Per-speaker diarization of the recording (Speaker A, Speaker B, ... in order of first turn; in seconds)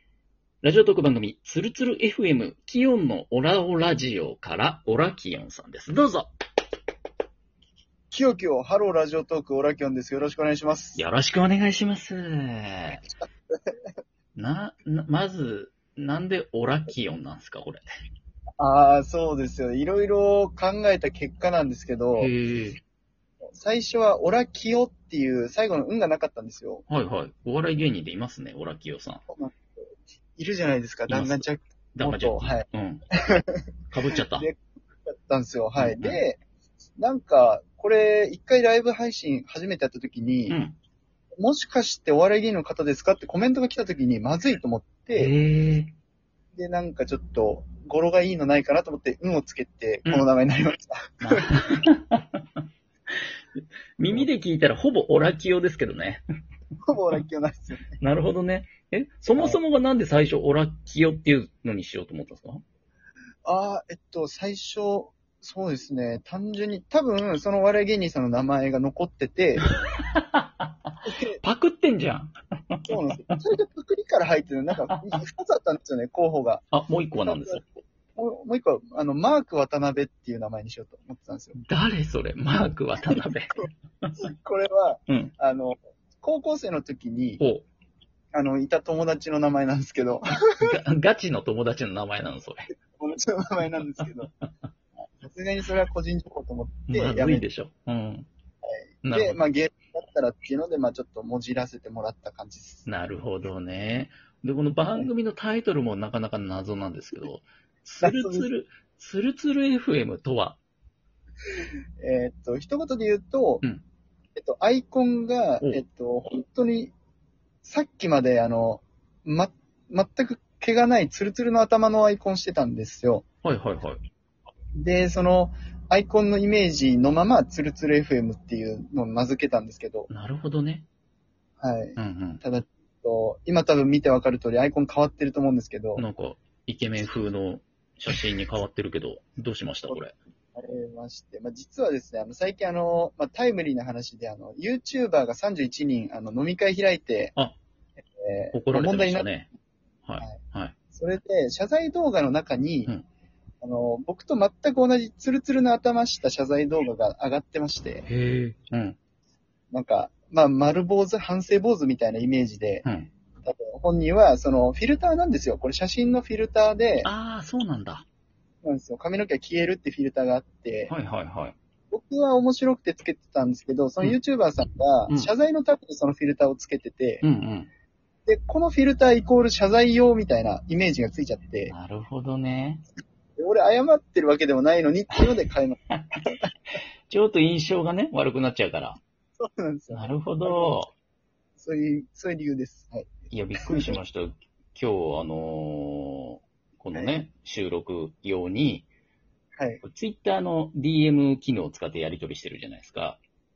Speaker A: 0.6-6.3, 10.9-13.0, 14.3-17.8, 22.2-22.8, 26.9-29.2, 31.1-33.0, 33.9-34.5, 35.8-36.2, 40.5-40.7, 45.1-45.9, 51.2-52.6, 53.6-56.2, 58.0-62.6, 69.8-73.3, 76.7-77.8, 81.6-84.1, 85.1-85.3, 87.4-87.7, 90.6-92.7, 96.9-98.3, 99.0-99.4, 102.8-110.6, 123.4-124.0, 130.1-130.8, 132.0-132.4, 135.9-140.2, 148.5-149.5, 150.1-150.7, 158.1-159.0, 162.8-163.1, 167.0-168.1, 170.9-171.6, 177.2-177.7, 181.7-182.8, 187.1-189.0, 189.9-190.9, 193.3-198.8, 199.8-203.2
Speaker B: 8.1-11.0, 18.6-22.3, 23.5-26.8, 29.3-29.8, 30.4-32.6, 33.2-33.6, 34.3-34.6, 35.3-36.4, 37.0-40.6, 41.4-45.3, 46.5-51.5, 56.9-58.0, 59.3-59.6, 63.4-69.6, 71.0-71.4, 72.9-76.6, 77.2-77.6, 78.2-81.6, 84.2-87.4, 88.3-90.6, 93.0-94.3, 95.2-97.5, 98.7-102.9, 108.0-108.5, 112.0-113.6, 114.3-116.9, 117.6-123.2, 124.7-130.1, 131.6-136.0, 140.5-147.3, 148.2-149.4, 150.9-152.9, 153.6-158.1, 159.7-162.8, 163.4-167.1, 168.6-170.9, 171.9-177.2, 178.2-181.7, 183.4-186.5, 189.4-190.8, 191.6-193.1, 193.6-194.0, 196.9-197.2, 199.6-199.8